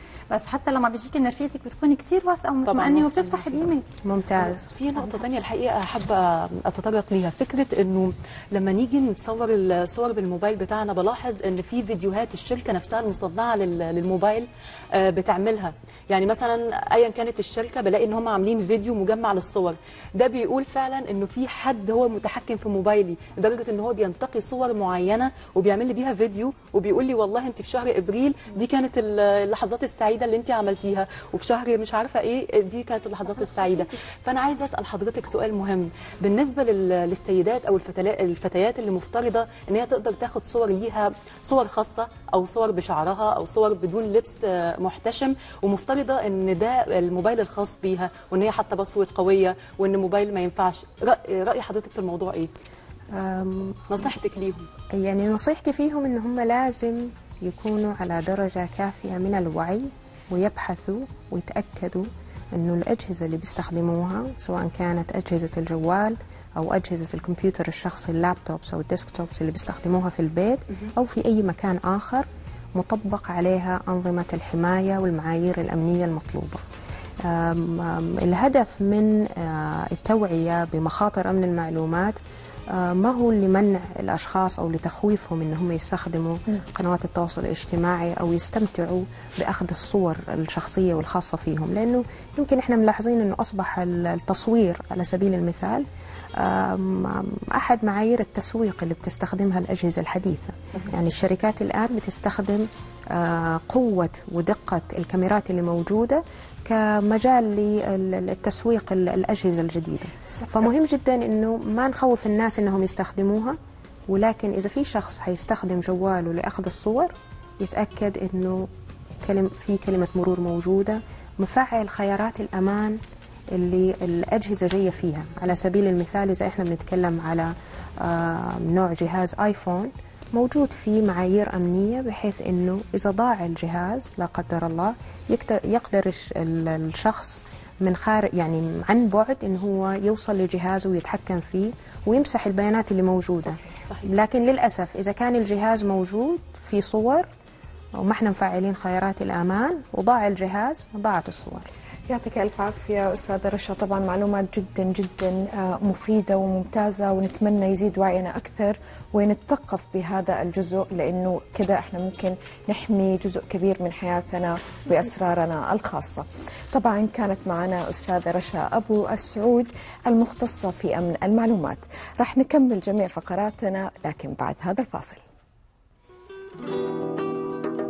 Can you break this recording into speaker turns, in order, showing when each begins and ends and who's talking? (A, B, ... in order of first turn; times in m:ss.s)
0:00.3-0:03.8 A
0:02.6-0:03.7 B
0:04.0-0:04.7 C
0:04.4-0:52.5 B
0:33.4-0:33.9 A
0:53.1-0:54.0 C
0:53.9-0:54.7 B
0:54.9-1:16.6 C
1:17.2-1:22.2 C
1:22.7-1:35.8 C
1:36.4-1:53.6 C
1:54.1-1:58.7 C
1:59.2-2:03.0 C
2:03.5-2:27.3 C
2:23.4-2:24.1 B
2:28.0-2:31.7 C
2:32.1-2:55.2 D